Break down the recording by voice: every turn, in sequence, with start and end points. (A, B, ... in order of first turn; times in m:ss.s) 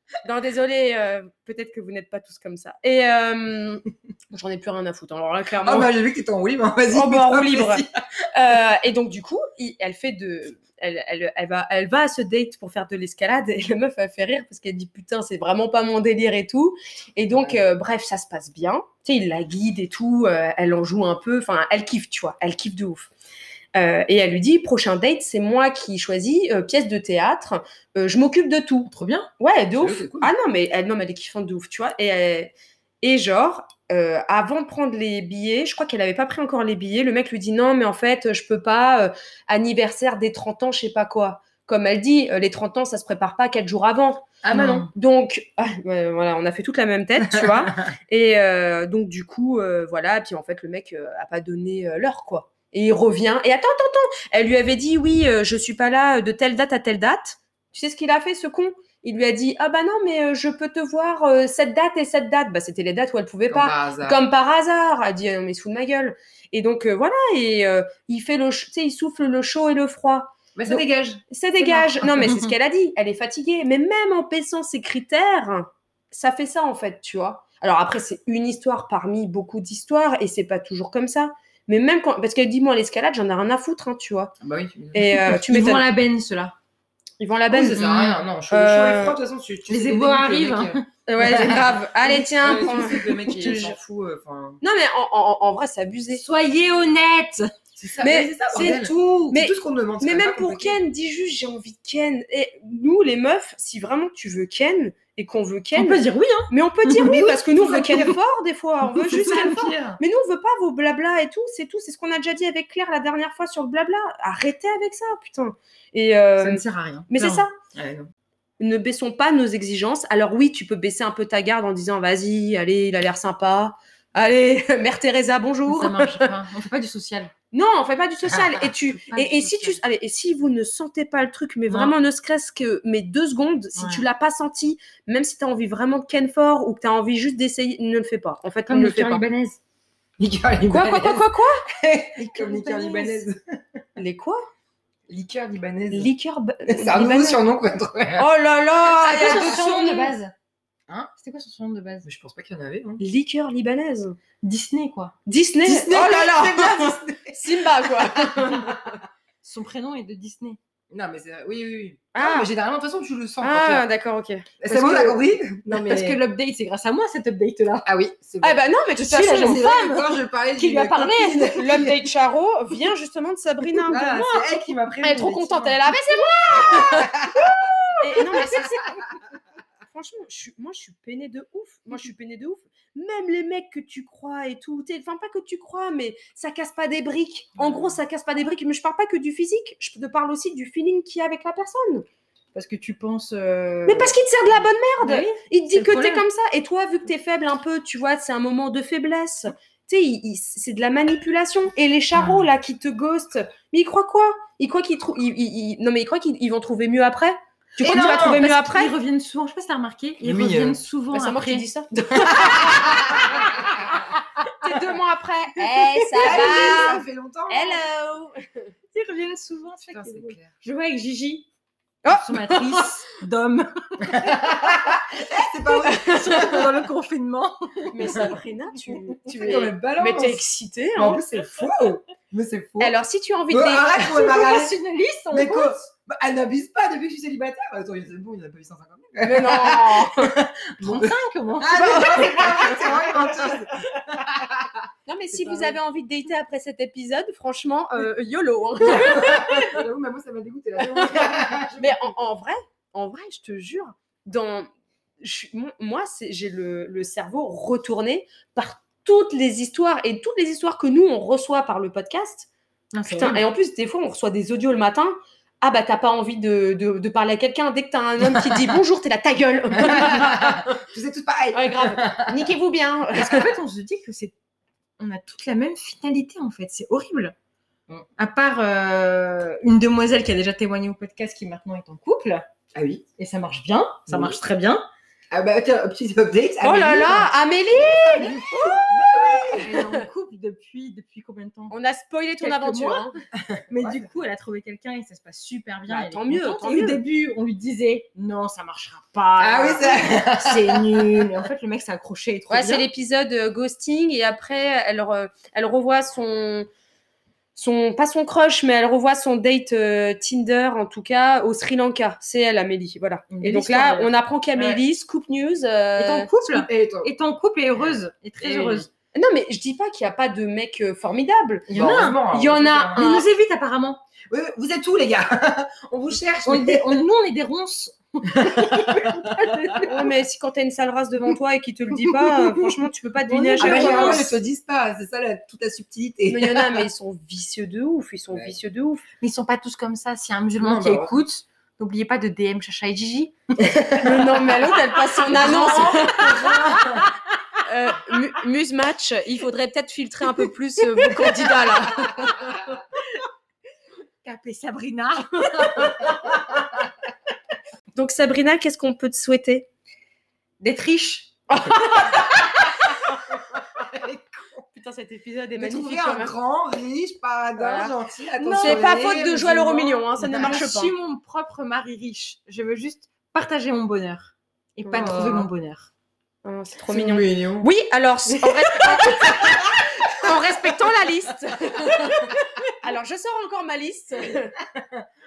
0:00.2-0:05.9 A
0:05.6-0:07.9 B
0:06.9-0:23.1 A
0:23.7-1:24.3 A
0:28.9-0:29.3 C
0:29.7-0:30.3 B
0:44.4-0:44.8 B
0:44.5-0:44.9 C
0:47.3-0:47.7 B
1:03.5-1:04.2 B
1:10.5-1:11.2 B
1:11.6-1:12.5 C
1:24.4-1:25.3 B
1:24.9-1:25.8 A
1:25.3-1:26.5 C
1:27.2-1:27.8 A
1:27.5-1:34.6 B
1:27.8-1:28.2 C
1:28.5-1:29.2 A
1:29.7-1:30.8 C
1:31.1-1:33.8 A
1:34.6-1:36.2 A
1:36.1-1:37.5 C
1:37.8-1:40.8 B
1:38.0-1:57.5 A
1:45.7-1:48.1 C
1:47.0-1:48.1 B
1:48.8-1:50.0 C
1:56.4-1:57.4 C
1:57.7-1:58.1 B
1:58.6-2:06.3 A
2:05.7-2:07.3 C
2:07.5-2:19.2 A
2:08.5-2:09.8 C
2:13.7-2:14.0 C
2:18.7-2:19.6 C
2:20.2-2:23.8 B
2:20.7-2:21.6 A
2:22.2-2:23.2 C
2:24.0-2:24.4 A
2:25.1-2:26.1 B
2:25.9-2:27.4 A
2:26.7-2:28.3 B
2:28.2-2:30.1 A
2:29.0-2:29.6 B
2:29.0-2:30.3 C
2:30.9-2:32.1 C
2:32.0-2:33.0 B
2:33.0-2:34.2 A
2:34.4-2:35.1 C
2:35.2-2:38.8 A
2:35.6-2:38.9 B
2:39.4-2:40.6 C
2:40.9-2:43.8 B
2:42.1-2:42.5 A
2:43.4-2:45.2 A
2:44.6-2:46.2 B
2:45.7-2:47.9 C
2:47.8-2:52.1 B
2:48.4-2:49.6 A
2:49.0-2:50.1 C
2:50.6-2:59.2 A
2:53.9-2:59.0 B
2:59.9-3:12.0 A
3:12.5-3:14.2 C
3:13.8-3:28.9 A
3:15.0-3:16.2 C
3:27.8-3:31.6 C
3:27.8-3:28.4 B
3:30.2-3:30.8 B
3:31.1-3:38.7 A
3:32.3-3:33.5 B
3:36.1-3:37.8 B
3:38.9-3:41.5 C
3:39.9-3:40.5 B
3:42.0-3:42.9 A
3:42.1-3:44.9 C
3:44.1-3:46.6 B
3:45.7-3:48.3 C
3:45.8-3:46.7 A
3:47.9-3:51.2 A
3:48.0-3:48.3 B
3:49.2-3:50.4 B
3:51.0-3:52.9 B
3:52.8-3:54.3 A
3:53.5-3:54.7 B
3:54.1-3:55.8 C
3:55.3-4:05.7 B
3:59.2-4:00.3 A
4:00.8-4:03.4 C
4:01.8-4:02.9 A
4:05.0-4:09.8 A
4:08.8-4:12.1 B
4:09.0-4:09.5 C
4:10.8-4:22.5 A
4:22.9-4:23.4 C
4:23.1-4:30.8 A
4:29.7-4:32.5 B
4:31.5-4:33.5 A
4:33.1-4:34.3 C
4:35.0-4:37.3 C
4:38.2-4:42.5 C
4:42.7-4:43.0 B
4:43.2-4:44.8 C
4:44.1-4:44.4 B
4:45.3-4:49.7 B
4:46.6-4:50.0 A
4:49.5-4:51.8 C
4:51.7-4:53.1 A
4:52.4-4:53.1 C
4:53.4-4:54.1 B
4:53.7-5:02.8 C
4:55.9-4:57.0 A
4:59.4-5:01.4 B
5:02.5-5:06.7 A
5:07.6-5:16.3 A
5:13.3-5:14.1 C
5:14.5-5:14.8 B
5:16.0-5:18.9 C
5:16.5-5:17.1 B
5:18.4-5:23.2 A
5:21.7-5:22.2 C
5:21.7-5:23.0 B
5:23.0-5:24.0 C
5:24.3-5:27.0 B
5:26.4-5:30.0 C
5:28.3-5:29.8 B
5:29.8-5:34.3 A
5:33.2-5:34.3 C
5:33.6-5:36.9 B
5:36.3-5:39.0 A
5:39.2-5:43.7 C
5:40.6-5:41.2 B
5:43.6-5:44.4 B
5:44.0-5:46.7 A
5:45.3-5:47.1 C
5:45.4-5:47.1 B
5:47.6-5:52.6 A
5:54.2-5:56.3 C
5:55.5-5:56.1 A
5:57.9-5:59.7 A
6:00.6-6:02.2 C
6:01.5-6:03.0 A
6:03.3-6:04.6 B
6:04.7-6:06.3 A
6:05.6-6:10.4 B
6:07.6-6:07.9 A
6:08.4-6:09.0 C
6:08.5-6:10.9 A
6:10.3-6:15.9 C
6:14.8-6:15.4 A
6:14.9-6:15.5 B
6:16.4-6:24.6 A
6:16.9-6:17.7 B
6:18.7-6:19.4 C
6:24.8-6:25.0 B